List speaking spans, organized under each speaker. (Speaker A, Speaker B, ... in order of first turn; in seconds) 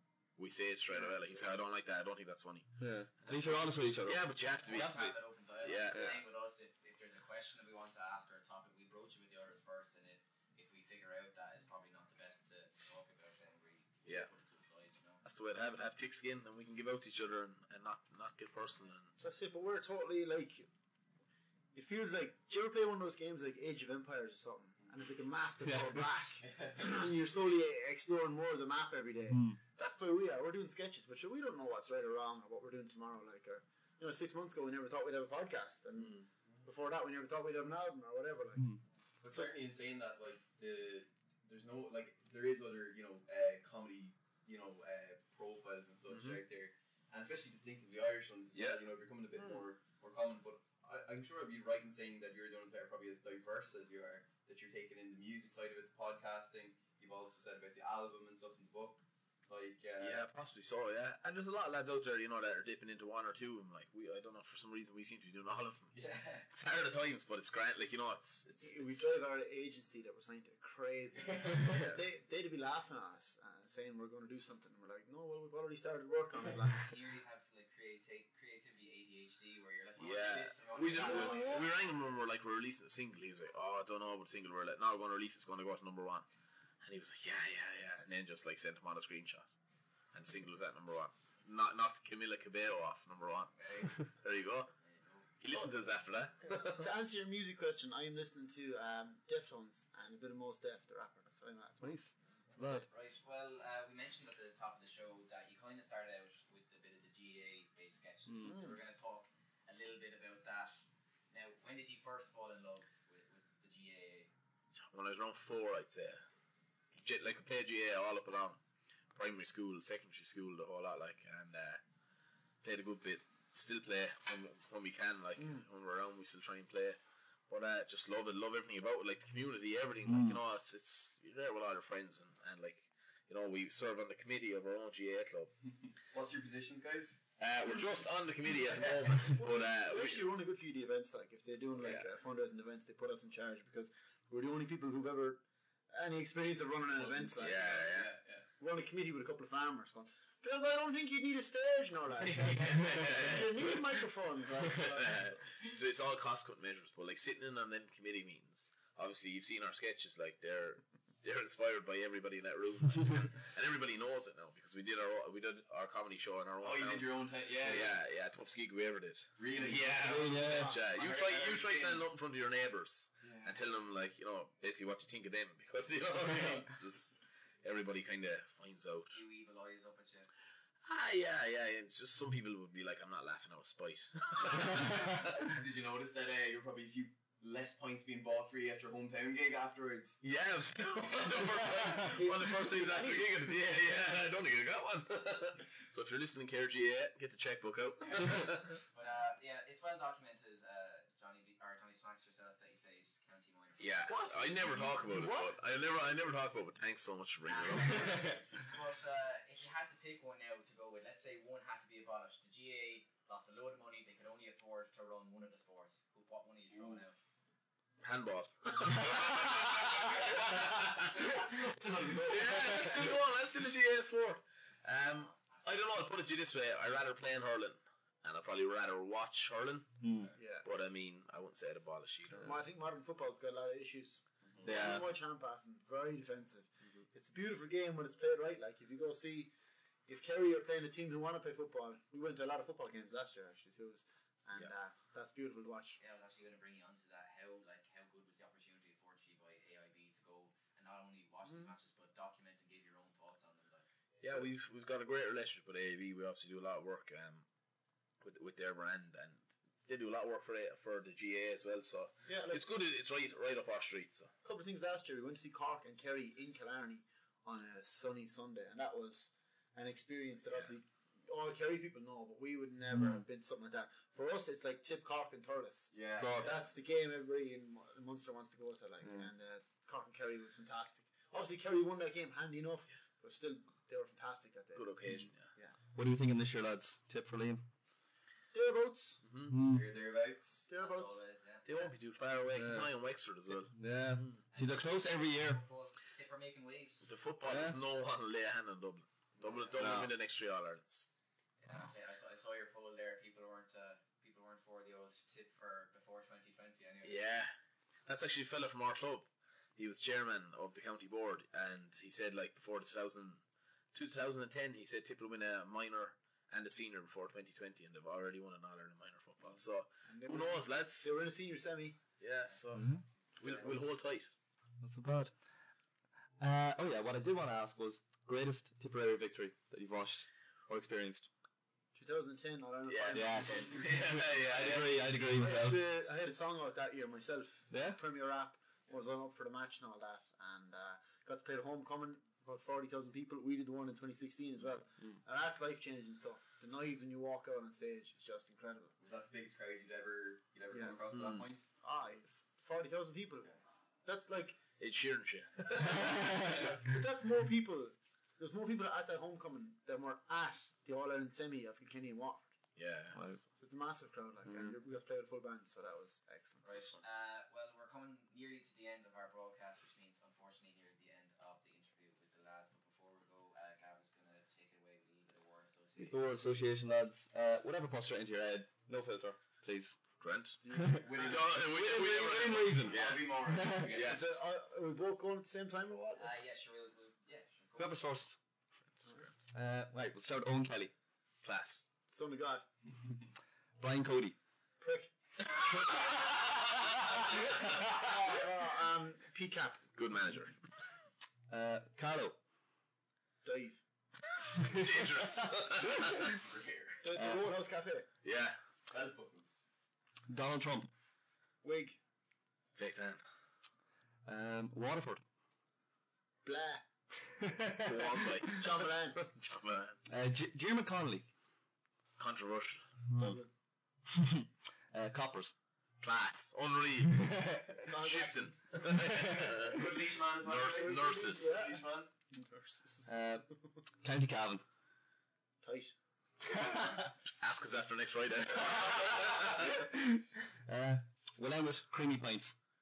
Speaker A: 0.4-2.7, 4.0-5.0, 5.6-6.2, 15.2-19.2, 46.1-46.4, 48.5-48.8, 60.0-69.1, 71.6-72.0, 80.0-86.2, 86.8-89.5, 90.1-94.7, 95.4-96.8, 114.8-116.2, 117.0-118.6, 119.1-121.8, 122.6-135.5, 137.4-140.3, 141.8-142.1, 147.3-148.1, 152.2-154.0, 154.8-179.2, 180.8-184.9, 190.2-198.8, 203.8-208.3, 218.0-221.4, 222.2-230.0, 230.6-232.5, 234.7-235.0, 254.2-257.4, 258.2-264.3, 284.7-285.5, 289.2-289.6, 291.6-294.4, 297.0-301.1, 307.0-307.5, 308.1-313.4, 313.9-321.2, 322.2-322.9, 323.4-324.3, 332.9-335.0, 354.8-356.6, 362.8-363.2, 380.2-380.6, 381.1-384.2, 389.0-389.3, 391.4-391.9, 399.9-400.5, 404.6-406.3, 408.2-408.6, 412.7-413.2, 417.8-418.6, 419.4-419.9, 422.2-422.8, 426.0-427.3, 427.9-431.6, 437.4-439.7
Speaker B: 0.9-1.5, 19.2-20.7, 21.7-39.5, 68.6-76.9, 81.0-81.6, 96.4-101.9, 108.4-108.8, 125.4-125.6, 139.3-148.1, 148.6-155.4, 169.8-170.8, 192.0-193.3, 204.1-205.6, 230.3-230.7, 232.4-239.5, 240.1-246.0, 262.3-262.6, 264.4-285.7, 288.5-289.2, 290.7-291.1, 320.1-322.0, 331.9-333.9, 335.3-348.9, 350.7-351.0, 351.8-353.5, 354.0-354.6, 356.5-362.5, 363.5-367.0, 380.6-381.4, 383.9-386.3, 392.1-392.7, 394.8-395.1, 397.3-399.8, 403.4-403.8, 407.0-408.1, 411.6-412.0, 416.4-416.9, 418.5-419.3, 423.2-423.5, 427.8-428.9, 430.6-433.2, 435.6-435.9
Speaker C: 2.8-5.1, 29.3-29.6, 101.8-102.8, 130.0-130.4, 170.0-170.8, 230.0-230.3, 234.6-235.0, 276.2-276.5, 285.9-287.6, 289.5-289.9, 292.6-292.9, 293.7-295.6, 297.4-297.8, 299.8-300.1, 322.7-323.0, 324.8-325.3, 326.4-331.3, 333.1-335.8, 337.7-338.0, 356.0-356.7, 363.1-363.4, 364.5-364.8, 376.0-380.0, 380.7-381.1, 381.6-383.9, 387.8-388.4, 389.5-390.9, 393.8-394.4, 401.5-402.4, 404.6-406.4, 407.1-407.4, 410.3-410.9, 414.2-415.2, 420.1-421.3, 424.1-425.5, 427.1-427.8, 428.8-429.6, 433.1-433.4, 434.0-434.6, 438.9-442.6
Speaker D: 3.2-3.6, 4.7-15.2, 76.8-81.6, 93.6-94.0, 94.8-95.3, 102.5-110.8, 111.3-114.3, 179.1-180.3, 198.9-204.3, 207.4-217.2, 219.8-220.5, 225.2-225.8, 246.0-253.9, 290.7-291.9, 294.5-297.2, 299.4-299.8, 301.6-307.4, 366.6-376.2, 386.2-388.0
Speaker E: 26.5-26.8, 39.2-60.2, 65.9-66.5, 136.1-137.2, 147.0-148.4, 166.6-167.9, 169.4-170.2, 170.8-172.0, 173.2-173.6, 184.4-190.2, 221.0-222.9, 275.9-276.7, 289.6-290.7, 349.0-351.7, 381.0-384.2, 405.8-407.0, 408.9-409.7, 429.6-432.1